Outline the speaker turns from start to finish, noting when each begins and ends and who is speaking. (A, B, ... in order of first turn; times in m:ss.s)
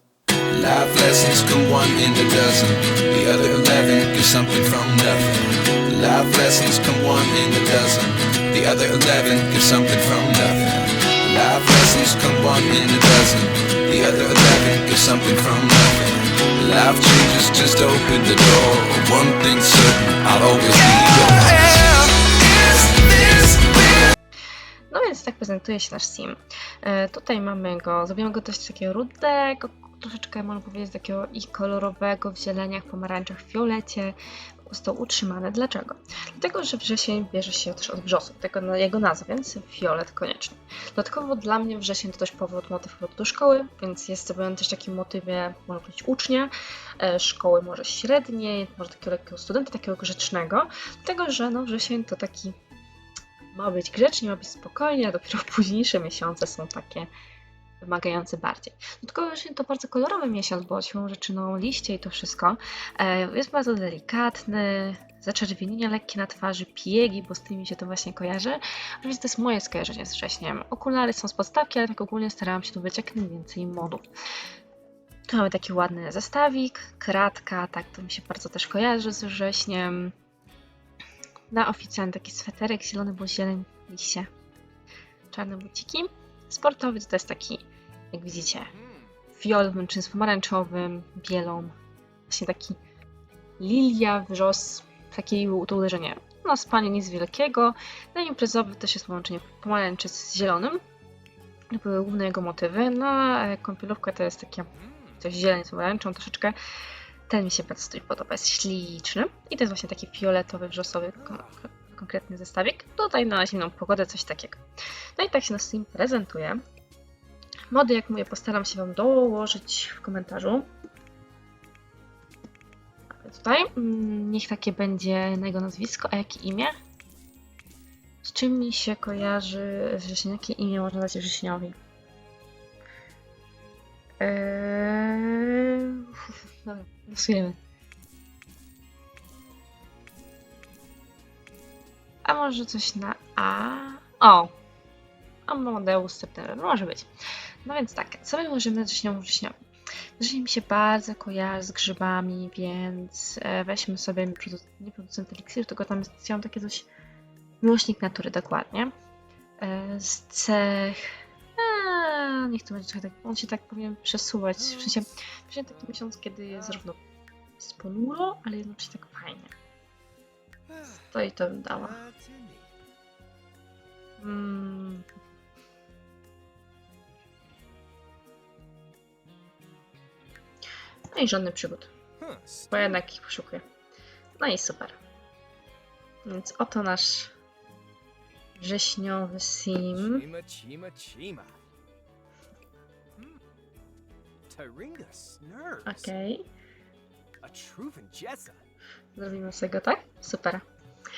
0:00.5-0:24.1 A
0:24.9-0:34.2 B
0:34.7-0:52.6 B
0:53.5-0:57.1 B
0:57.8-1:14.1 B
1:15.3-1:20.2 B
1:21.5-1:24.3 B
1:25.3-1:28.7 B
1:29.3-1:31.8 B
1:32.3-1:32.8 B
1:33.6-1:40.8 B
1:41.7-1:46.6 B
1:47.3-1:54.6 B
1:55.2-1:56.6 B
1:57.7-2:00.7 B
2:03.2-2:06.8 B
2:08.2-2:11.8 B
2:14.2-2:17.6 B
2:22.2-2:24.5 B
2:25.5-2:27.1 B
2:27.6-2:29.5 B
2:30.2-2:36.9 B
2:37.6-2:38.9 B
2:39.6-2:47.0 B
2:47.6-2:49.5 B
2:50.9-2:52.0 B
2:51.9-2:52.7 C
2:54.2-2:55.1 B
3:01.1-3:01.9 B
3:02.2-3:02.7 C
3:02.7-3:03.6 B
3:04.4-3:05.0 B
3:06.2-3:07.3 B
3:08.6-3:10.2 B
3:10.0-3:11.6 C
3:14.5-3:16.1 C
3:15.8-3:16.4 B
3:17.4-3:18.6 C
3:19.2-3:20.6 B